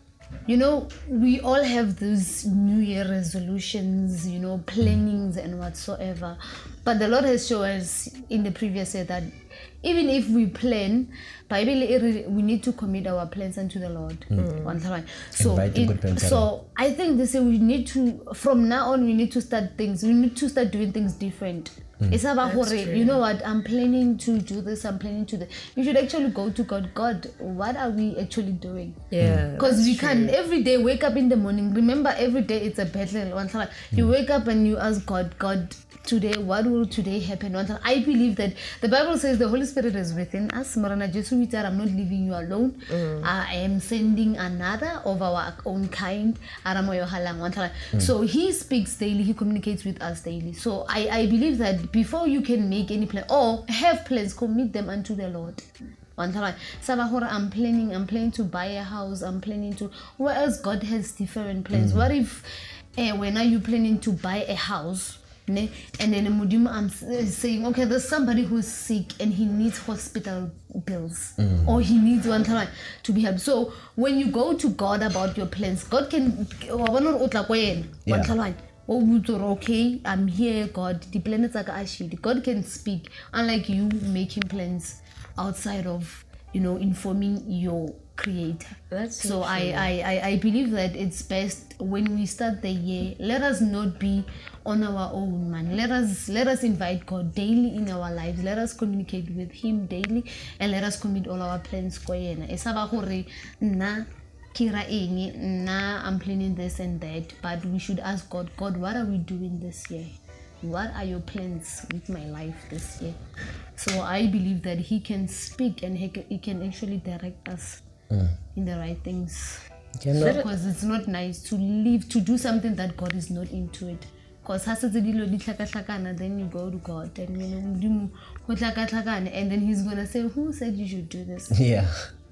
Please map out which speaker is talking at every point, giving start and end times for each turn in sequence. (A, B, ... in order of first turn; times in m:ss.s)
0:00.5-0:29.0 A
0:14.4-0:14.8 B
0:15.4-0:16.5 C
0:22.4-0:23.2 B
0:29.1-0:30.4 B
0:29.6-0:55.6 A
0:42.9-0:43.3 B
0:56.2-1:02.4 A
1:01.7-1:02.1 C
1:03.0-1:53.2 A
1:11.4-1:11.7 C
1:18.1-1:18.3 C
1:28.9-1:29.9 B
1:53.8-1:57.8 A
1:58.1-1:58.4 C
1:58.6-1:59.6 A
2:00.0-2:00.4 C
2:00.1-2:11.6 A
2:00.2-2:00.5 B
2:11.5-2:12.1 C